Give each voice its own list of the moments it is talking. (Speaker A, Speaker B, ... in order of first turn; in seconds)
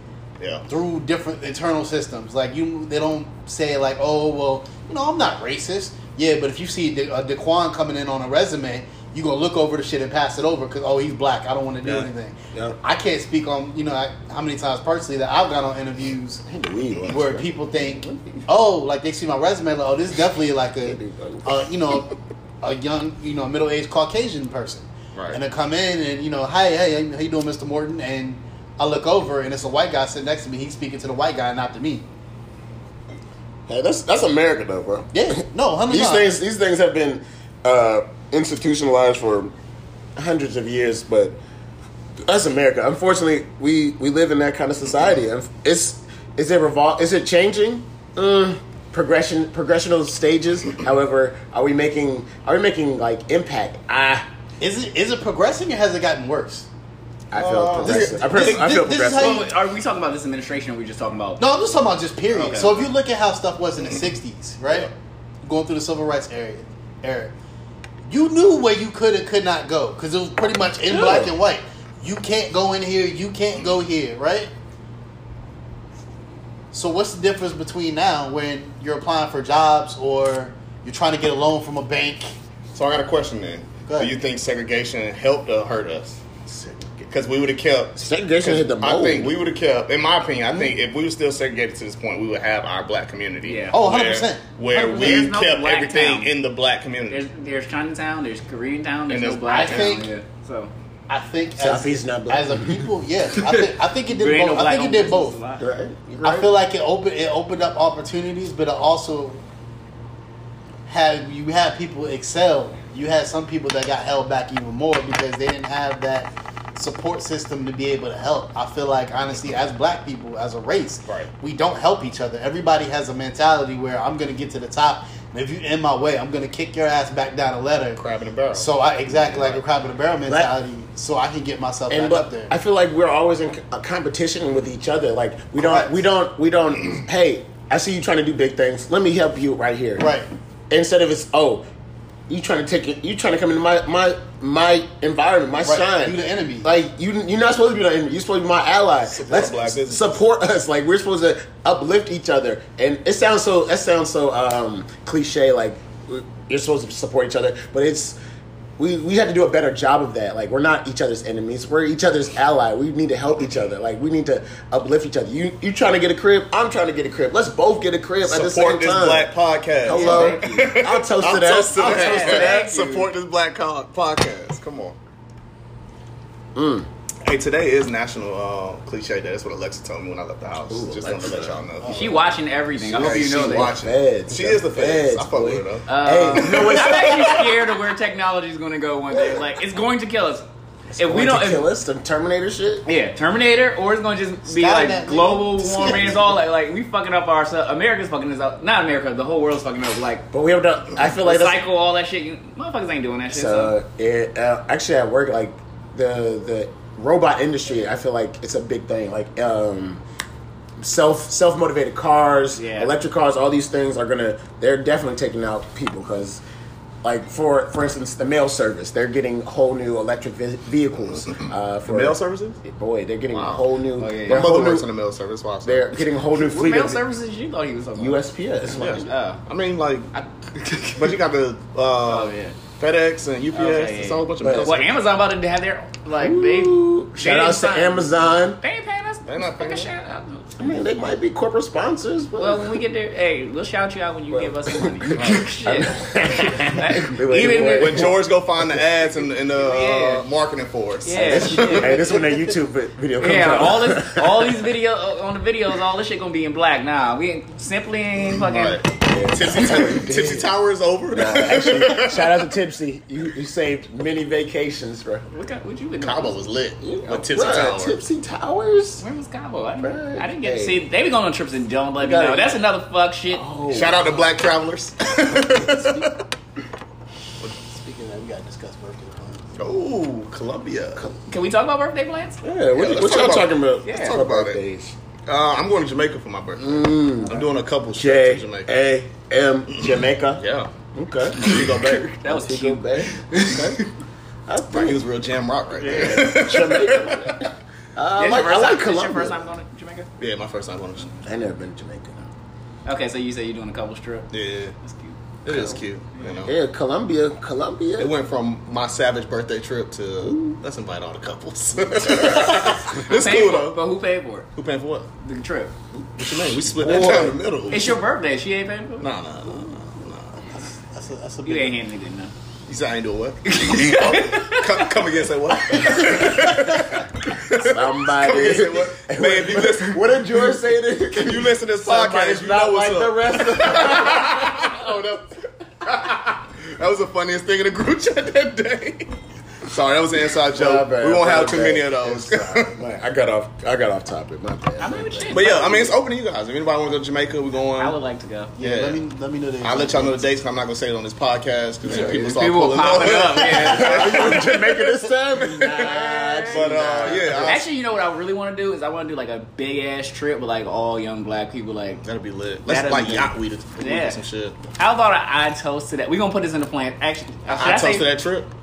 Speaker A: 0.4-0.6, 57.4-58.5, 82.7-86.5, 87.0-97.2, 99.1-99.9, 128.0-129.6, 149.1-150.2, 168.2-175.0, 177.2-182.1, 182.9-187.4, 221.3-222.6, 223.3-223.6, 224.3-226.0, 228.7-230.1, 230.9-235.0, 239.3-239.9, 245.1-245.5, 247.3-252.0, 258.4-262.3, 266.0-268.0, 273.7-276.2, 279.6-281.1, 282.7-284.6, 285.3-288.7, 289.7-290.7, 291.4-292.0, 294.7-297.5, 300.2-301.2, 304.3-304.7, 305.4-306.5, 308.0-313.8, 314.6-315.1, 316.1-317.8, 319.0-320.4, 322.6-330.5, 331.1-335.2, 335.8-339.1, 339.6-342.8, 345.3-347.9, 348.6-349.0, 349.6-354.7, 355.4-355.9, 356.5-357.6, 362.0-364.6, 367.5-368.5
Speaker B: 0.7-16.4, 17.1-32.1, 35.1-36.3, 54.6-56.7, 57.8-59.5, 61.4-64.9, 65.4-67.3, 68.1-74.5, 76.7-82.3, 83.9-84.1, 93.7-94.5, 99.5-100.1, 101.1-105.4, 106.2-109.4, 110.9-128.0, 128.5-132.5, 135.6-135.9, 140.0-140.3, 145.6-146.7, 181.8-182.3, 194.4-196.3, 277.4-279.4, 320.9-321.8, 348.6-350.2
Speaker C: 12.5-12.8, 16.5-18.4, 20.8-21.7, 33.7-39.5, 40.1-41.4, 42.2-54.3, 57.3-59.4, 70.9-71.3, 88.0-89.3, 101.6-102.9, 105.6-106.5, 130.3-130.5, 131.9-140.1, 140.7-141.7, 142.3-158.2, 158.8-169.3, 169.8-172.6, 176.6-176.9, 180.7-181.6, 182.9-187.5, 190.9-192.9, 200.3-201.6, 203.3-210.0, 210.8-216.4, 217.0-224.9, 225.6-227.0, 227.9-229.1, 234.4-234.7, 236.2-238.6, 240.6-242.8, 244.3-248.2, 251.1-254.6, 259.1-260.5, 261.1-265.3, 266.8-269.0, 269.8-270.8, 272.0-272.6, 273.3-274.2, 282.4-284.9, 286.6-287.4, 287.9-290.4, 290.9-293.8, 294.5-295.0, 295.8-299.4, 301.2-302.2, 306.4-308.1, 312.0-312.4, 316.8-317.4, 327.6-334.9, 340.5-345.5, 353.6-357.6
Speaker D: 58.9-61.4, 62.3-62.9, 93.4-93.9, 94.7-96.3, 97.1-100.7, 104.1-105.6, 169.9-170.8, 171.8-173.1, 181.9-183.8, 185.9-190.4, 191.0-191.7, 192.8-200.3, 201.2-203.7, 212.6-212.9, 224.0-224.5, 226.3-228.2, 229.1-229.4, 230.1-231.1, 232.1-232.6, 233.5-240.6, 242.4-248.1, 249.6-250.2, 251.1-252.2, 253.2-258.8, 265.3-266.4, 269.0-273.4, 281.3-282.4, 283.9-284.1, 291.4-293.9, 298.1-300.1, 302.9-304.3, 304.8-305.8, 312.4-314.5, 315.2-315.7, 317.7-319.1, 321.4-322.3, 323.4-324.9, 325.6-326.5, 344.8-345.9, 347.8-348.5, 351.9-354.4, 355.8-362.0, 362.7-364.2, 364.8-368.1